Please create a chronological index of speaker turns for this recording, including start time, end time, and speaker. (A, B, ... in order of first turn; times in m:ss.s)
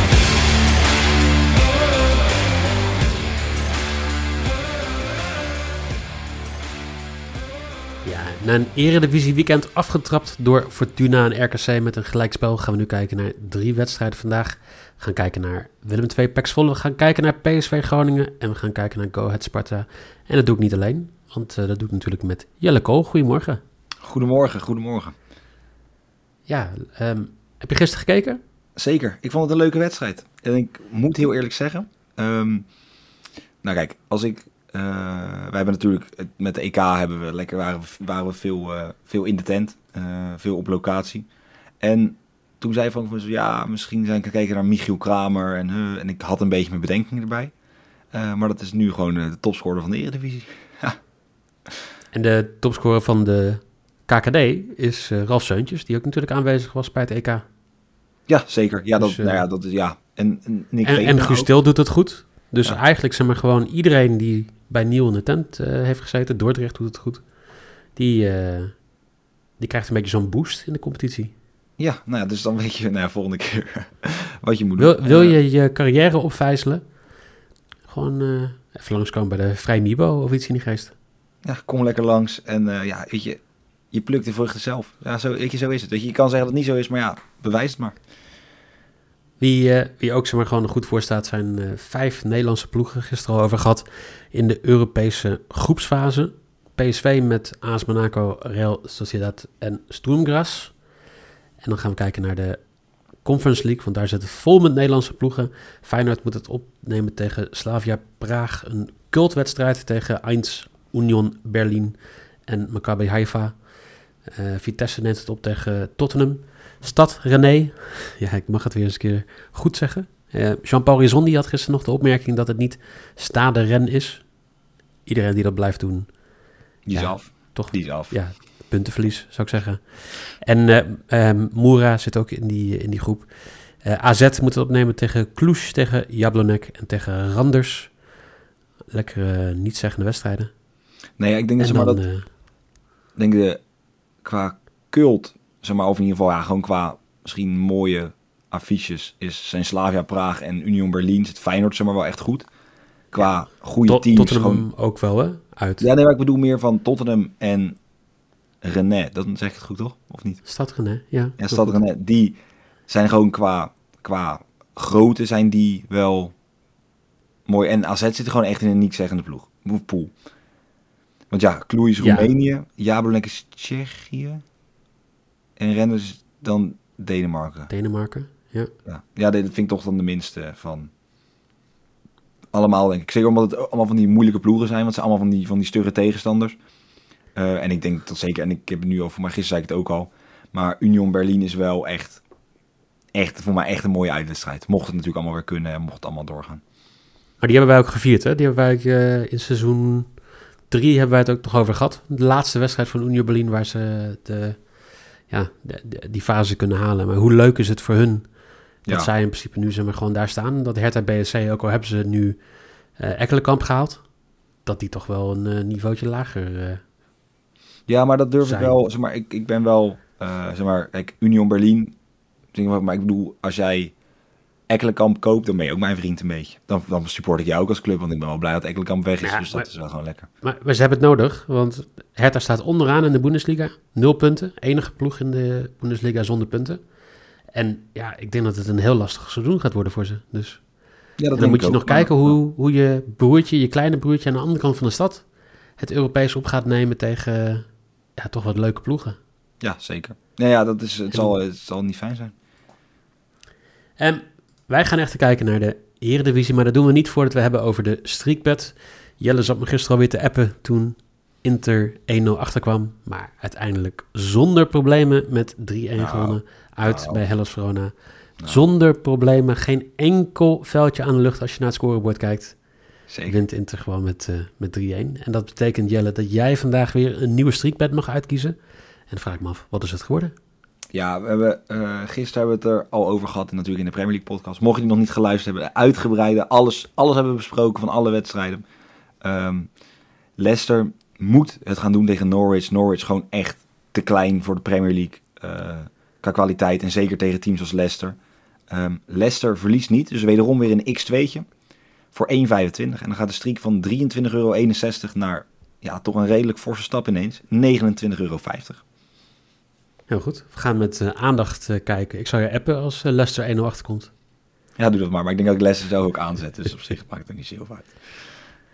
0:08.0-0:23.6 A
0:24.0-0:25.2 B
0:26.5-0:28.4 A
0:28.8-0:32.7 B
0:33.6-0:41.3 B
0:41.8-0:47.5 B
0:48.1-0:51.0 B
0:52.1-0:57.4 A
0:58.3-1:01.5 B
0:59.0-0:59.4 A
1:00.8-1:07.2 A
1:07.9-1:08.8 A
1:09.6-1:11.3 A
1:11.8-1:15.4 B
1:14.8-1:16.8 A
1:17.9-1:20.9 A
1:21.4-1:23.4 B
1:23.9-1:28.0 B
1:29.4-1:40.8 A
1:41.6-1:42.6 A
1:43.2-1:53.6 A
1:54.3-2:04.3 A
2:05.0-2:06.2 A
2:06.8-2:08.1 B
2:06.9-2:17.9 A
2:18.9-2:20.5 A
2:21.2-2:22.0 B
2:21.6-2:22.3 A
2:23.2-2:23.6 B
2:24.2-2:32.5 B
2:33.1-2:34.7 B
2:33.8-2:35.9 A
2:35.8-2:37.8 B
2:38.6-2:40.4 B
2:40.4-2:41.8 A
2:41.4-2:46.3 B
2:47.4-2:50.1 B
2:51.3-2:54.4 B
2:52.0-2:52.3 A
2:55.6-2:57.7 B
2:57.7-2:58.7 A
2:58.8-3:00.9 B
3:02.5-3:06.6 B
3:07.3-3:12.2 B
3:13.1-3:16.6 B
3:17.4-3:20.1 A
3:20.7-3:24.7 A
3:25.3-3:28.3 A
3:28.8-3:32.4 A
3:33.0-3:34.0 A
3:34.6-3:36.8 A
3:37.9-3:42.0 B
3:38.4-3:38.7 A
3:42.5-3:43.9 B
3:44.7-3:50.3 B
3:49.2-3:49.7 A
3:50.4-3:56.8 A
3:57.5-4:00.6 A
4:01.2-4:02.4 B
4:01.3-4:05.2 A
4:05.8-4:09.2 A
4:09.6-4:12.3 B
4:14.0-4:32.6 A
4:26.0-4:27.3 B
4:33.1-4:33.4 B
4:33.2-4:38.6 A
4:39.1-4:40.3 A
4:40.9-4:48.6 B
4:49.2-4:49.7 B
4:50.4-4:58.2 B
4:58.7-5:01.5 B
5:02.1-5:08.8 B
5:10.1-5:14.1 A
5:14.8-5:18.0 B